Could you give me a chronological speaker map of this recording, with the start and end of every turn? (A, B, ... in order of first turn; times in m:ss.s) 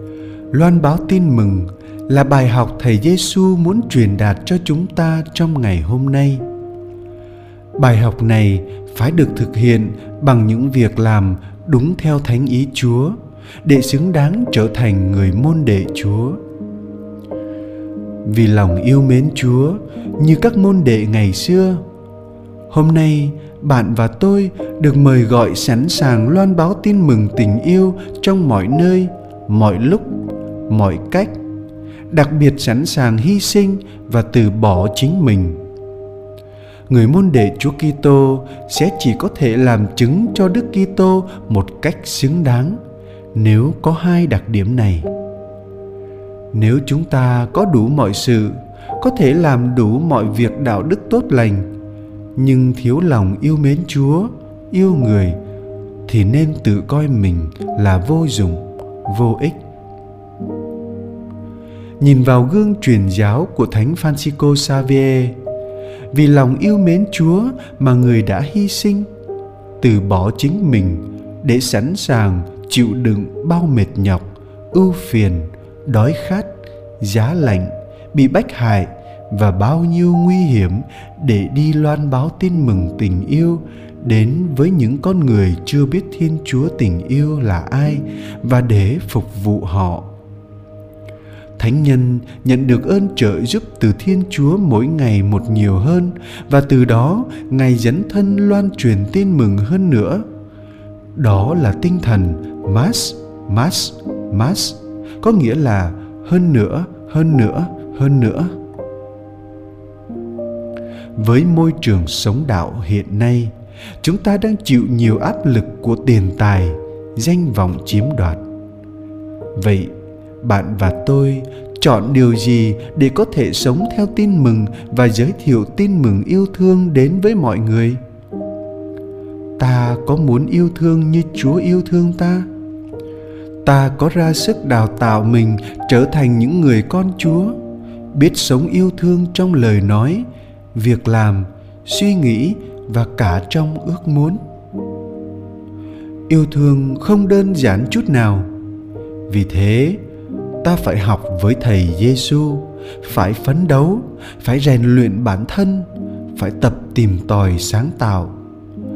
0:00.5-0:06.4 A
0:07.8-0:16.4 A
0:18.2-0:21.8 A
0:22.7-0:30.1 A
0:30.7-0:31.4 A
0:32.1-0:35.6 A
0:36.9-0:42.8 A
0:43.3-0:45.1 A
0:46.5-0:51.7 A
0:52.4-0:55.4 A
0:56.1-0:59.6 A
1:02.0-1:05.4 A
1:06.1-1:09.1 A
1:09.8-1:30.1 A
1:31.6-1:40.2 A
1:41.2-1:48.5 A
1:51.2-1:58.4 A
1:59.6-2:08.0 A
2:09.6-2:12.5 A
2:13.6-2:17.6 A
2:18.1-2:24.4 A
2:26.3-2:28.5 A
2:29.3-2:30.0 A
2:30.6-2:38.4 A